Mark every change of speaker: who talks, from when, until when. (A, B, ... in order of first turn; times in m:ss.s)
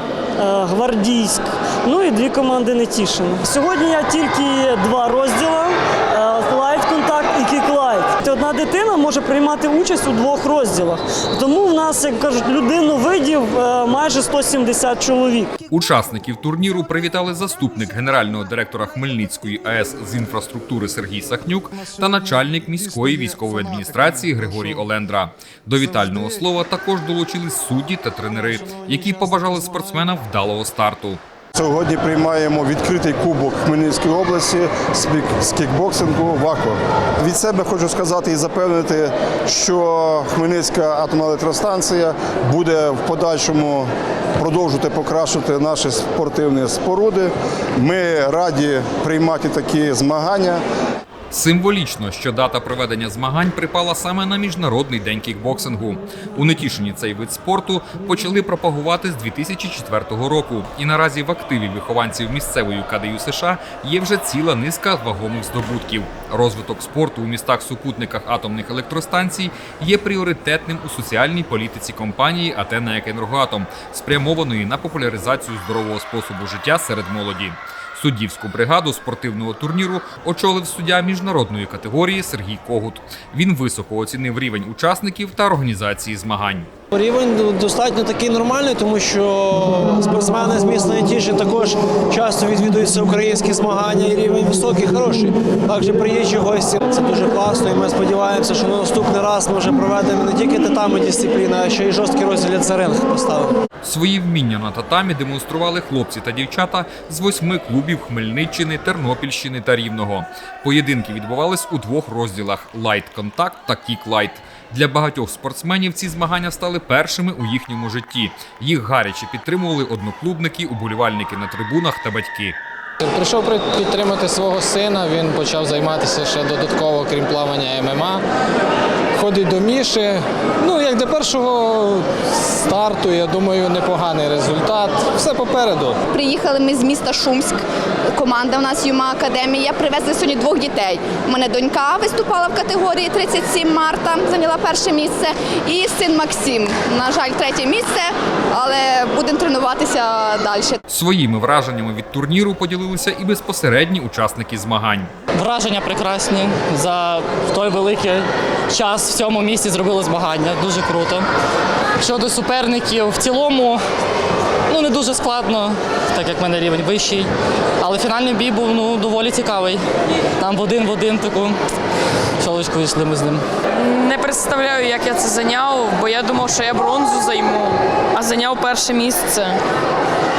0:00.4-0:15.5 A
0:15.7-0:31.2 B
0:31.6-0:50.6 C
0:51.3-1:26.7 B
1:26.9-1:43.5 D
1:43.8-2:02.6 B
2:03.0-2:08.2 E
2:09.2-2:16.0 E
2:16.1-2:17.6 F
2:18.1-2:30.8 F
2:30.9-2:35.1 B
2:35.3-2:41.3 G
2:42.0-2:43.8 G
2:44.7-2:49.8 G
2:50.4-2:51.6 G
2:52.4-2:53.4 G
2:53.7-2:59.6 H